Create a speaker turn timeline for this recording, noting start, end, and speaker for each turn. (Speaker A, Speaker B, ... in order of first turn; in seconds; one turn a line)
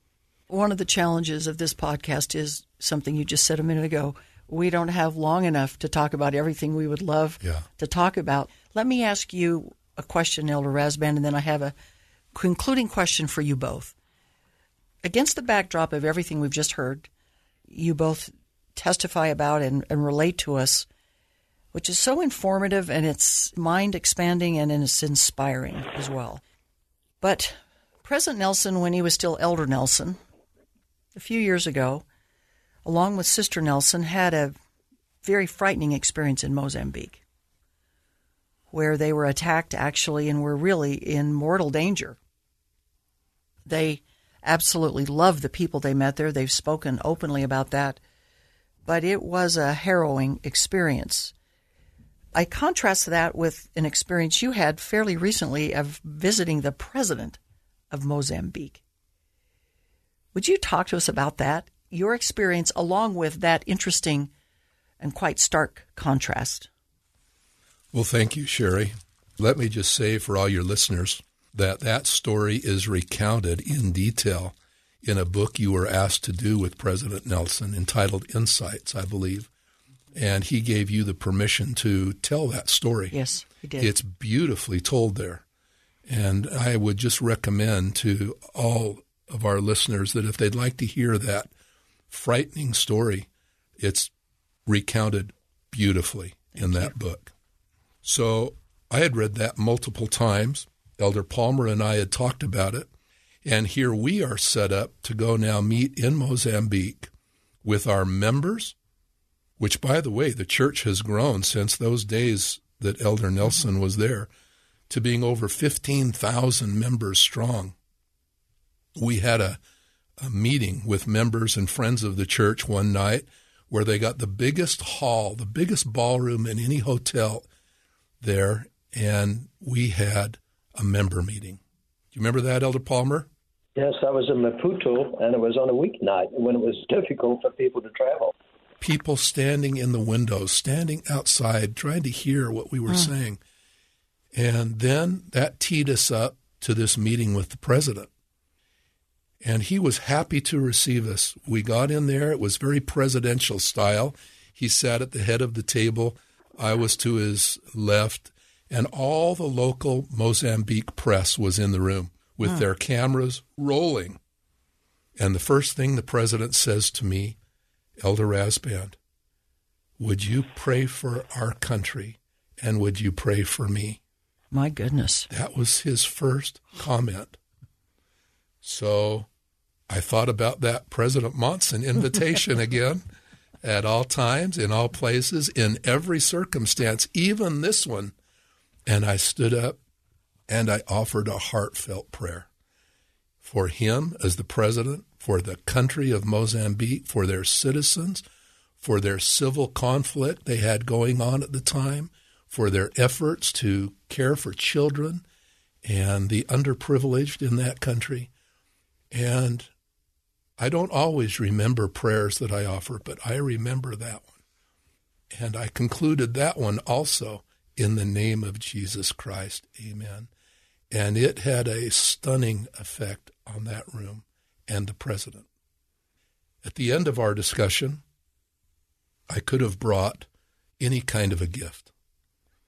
Speaker A: 0.5-11.7
Speaker B: 7.4-7.7
Speaker A: 12.3-13.9
Speaker A: 15.0-17.1
Speaker A: 17.7-20.9
Speaker A: 21.7-26.4
Speaker A: 27.2-30.2
Speaker A: 31.1-32.0
Speaker A: 32.8-34.6
Speaker A: 35.2-37.2
Speaker A: 38.7-42.2
Speaker A: 43.6-48.0
Speaker A: 48.9-51.3
Speaker A: 52.3-57.4
Speaker A: 57.9-58.8
Speaker A: 60.3-64.3
Speaker A: 65.0-66.7
Speaker B: 67.9-79.5
Speaker B: 80.1-83.2
Speaker A: 83.1-83.9
Speaker B: 83.8-85.4
Speaker B: 86.1-91.5
Speaker B: 92.1-94.1
Speaker B: 94.7-97.3
Speaker B: 98.0-102.9
Speaker B: 103.4-107.1
Speaker B: 107.6-108.8
Speaker B: 109.6-114.3
Speaker B: 114.9-117.7
Speaker B: 119.0-119.6
Speaker B: 120.2-127.5
Speaker B: 128.2-131.6
Speaker B: 132.1-133.3
Speaker C: 133.8-138.3
Speaker B: 138.8-143.4
Speaker B: 144.3-148.1
Speaker B: 149.4-164.2
Speaker B: 165.2-167.4
Speaker B: 168.0-169.0
Speaker B: 170.0-174.0
Speaker A: 174.5-175.3
Speaker B: 175.3-177.4
Speaker B: 178.6-179.3
Speaker B: 179.9-183.0
Speaker B: 183.6-188.1
Speaker B: 188.8-189.8
Speaker B: 190.5-192.5
Speaker B: 193.4-198.2
Speaker B: 198.8-205.2
Speaker B: 205.8-208.3
Speaker B: 209.1-209.7
Speaker B: 210.6-214.4
Speaker B: 215.3-220.3
Speaker B: 220.9-225.5
Speaker B: 226.6-228.0
Speaker B: 229.3-230.3
Speaker B: 230.8-231.9